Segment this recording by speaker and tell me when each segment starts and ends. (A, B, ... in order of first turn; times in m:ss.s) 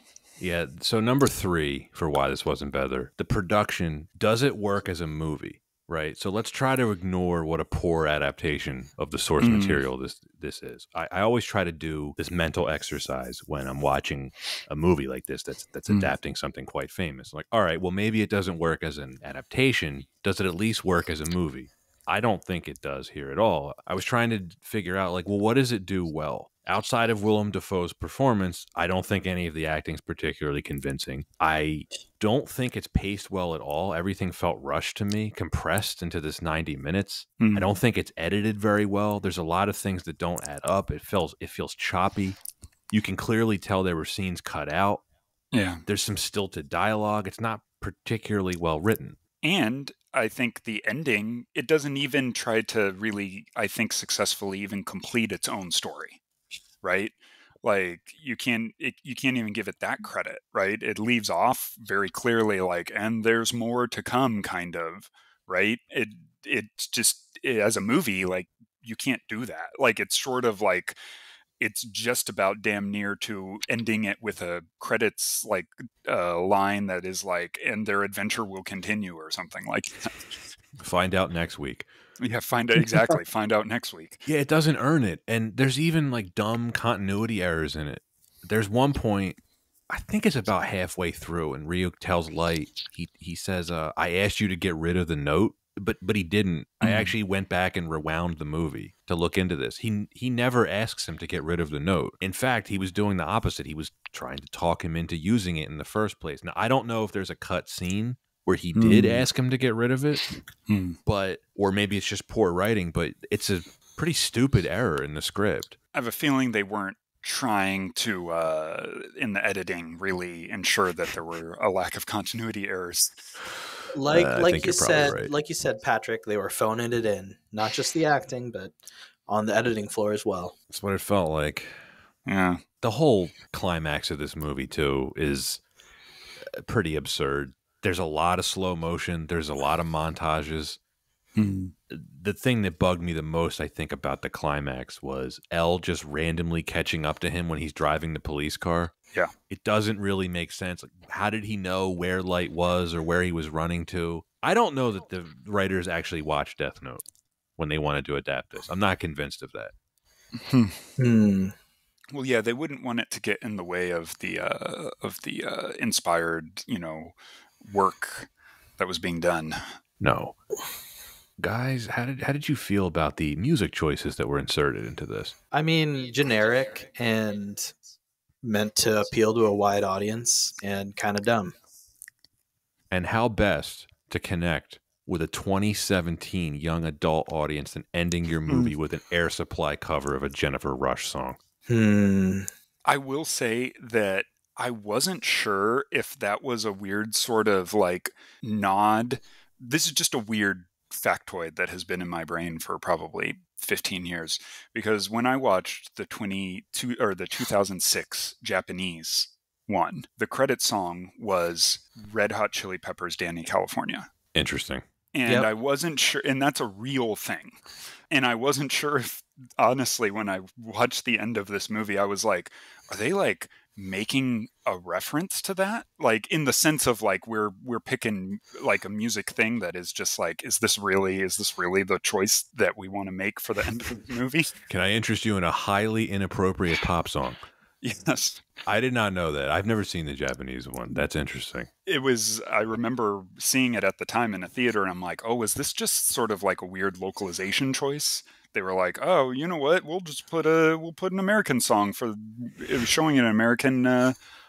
0:00.4-0:42.4 A
0:09.4-0:09.8 B
0:37.4-0:37.7 B
0:42.9-0:45.0 A
0:45.5-0:45.8 B
0:45.9-0:49.2 A
0:49.4-0:56.2 B
0:56.8-1:11.0 B
1:11.6-1:20.4 B
1:20.8-1:21.9 A
1:22.2-1:24.3 B
1:24.3-1:29.4 A
1:29.9-1:50.2 A
1:36.8-1:37.1 B
1:48.7-1:49.3 B
1:50.7-1:51.0 B
1:51.0-1:55.7 A
1:55.9-2:03.3 B
2:03.9-2:08.7 C
2:04.1-2:05.3 A
2:09.3-2:10.5 C
2:10.7-2:11.8 A
2:12.2-2:12.6 B
2:12.8-2:15.6 A
2:16.4-2:20.8 A
2:21.4-2:21.7 B
2:21.9-2:28.9 A
2:29.5-2:37.0 A
2:37.6-2:39.7 A
2:40.4-2:40.8 B
2:41.0-2:41.5 C
2:42.1-2:49.6 B
2:50.0-2:50.3 A
2:51.4-2:55.3 A
2:55.5-2:57.7 C
2:58.4-3:01.5 C
3:02.9-3:11.4 A
3:08.5-3:08.7 B
3:11.7-3:12.5 C
3:12.8-3:34.1 B
3:34.3-3:34.8 A
3:35.1-3:54.5 B
3:54.7-3:57.4 A
3:57.8-3:58.5 B
3:58.6-4:01.7 A
4:01.8-4:14.2 B